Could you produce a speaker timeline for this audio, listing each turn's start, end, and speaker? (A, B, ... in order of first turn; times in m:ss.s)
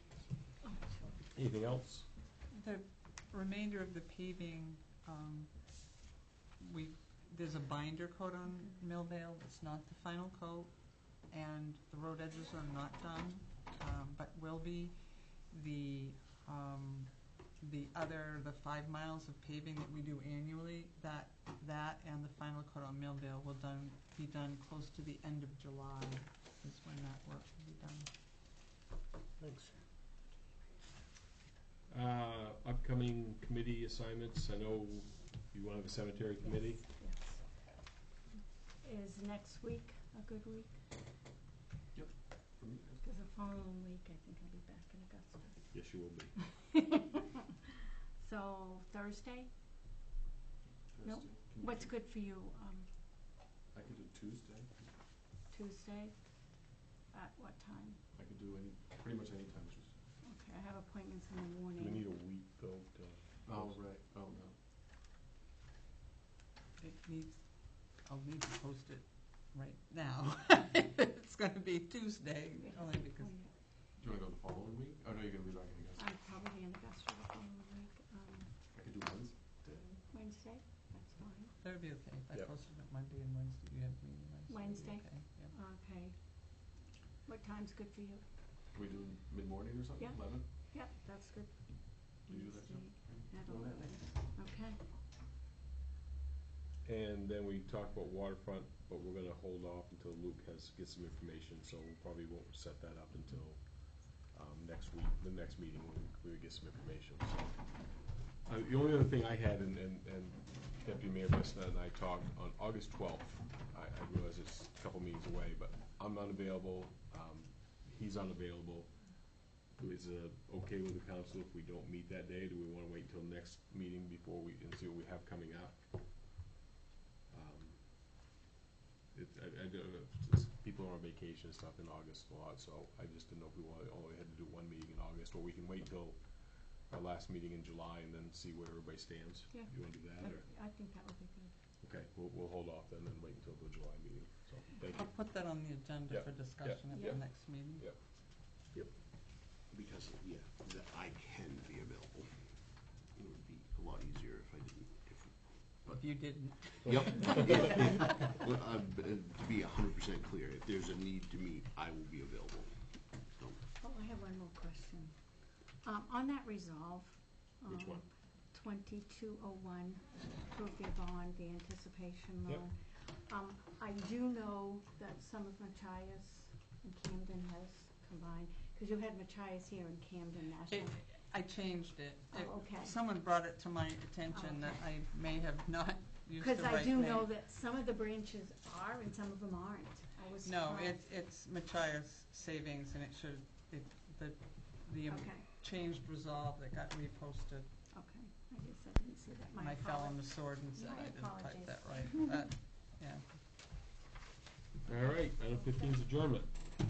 0:00.6-0:01.1 A
0:01.3-0:02.1 B
0:02.5-0:05.8 C
0:06.6-0:28.1 C
0:29.4-0:29.7 B
0:31.9-0:36.9 B
0:36.8-0:37.6 A
0:38.8-0:40.8 A
0:41.9-0:43.1 D
0:43.0-0:45.7 A
0:45.7-0:46.4 B
0:46.8-0:47.3 A
0:48.2-0:49.5 A
0:50.9-0:52.0 D
0:51.0-0:52.9 A
0:53.7-0:54.9 D
0:55.5-0:58.0 A
0:58.1-1:00.0 D
1:00.2-1:02.0 A
1:01.8-1:03.8 B
1:03.4-1:04.6 D
1:06.8-1:13.4 C
1:12.6-1:13.5 A
1:14.0-1:16.2 D
1:16.0-1:18.5 A
1:18.7-1:20.0 D
1:20.1-1:21.5 A
1:21.6-1:25.5 C
1:24.5-1:26.6 A
1:27.2-1:28.2 A
1:28.7-1:30.5 D
1:30.0-1:34.8 A
1:32.3-1:34.1 D
1:36.8-2:06.2 B
2:07.3-2:08.2 B
2:09.1-2:20.5 B
2:19.5-2:21.5 A
2:21.8-2:25.4 B
2:24.9-2:27.9 C
2:26.1-2:28.0 B
2:26.9-2:27.2 A
2:29.5-2:32.3 E
2:33.2-2:36.0 E
2:35.9-2:38.2 C
2:36.8-2:42.7 E
2:43.4-2:43.6 E
2:43.8-2:45.2 A
2:45.8-3:01.0 A
2:47.6-2:48.1 B
3:00.7-3:07.3 C
3:02.3-3:02.9 A
3:04.3-3:04.7 A
3:06.4-3:11.0 A
3:10.4-3:17.7 C
3:15.1-3:15.5 A
3:17.9-3:22.2 A
3:19.6-3:23.4 C
3:24.8-3:26.6 B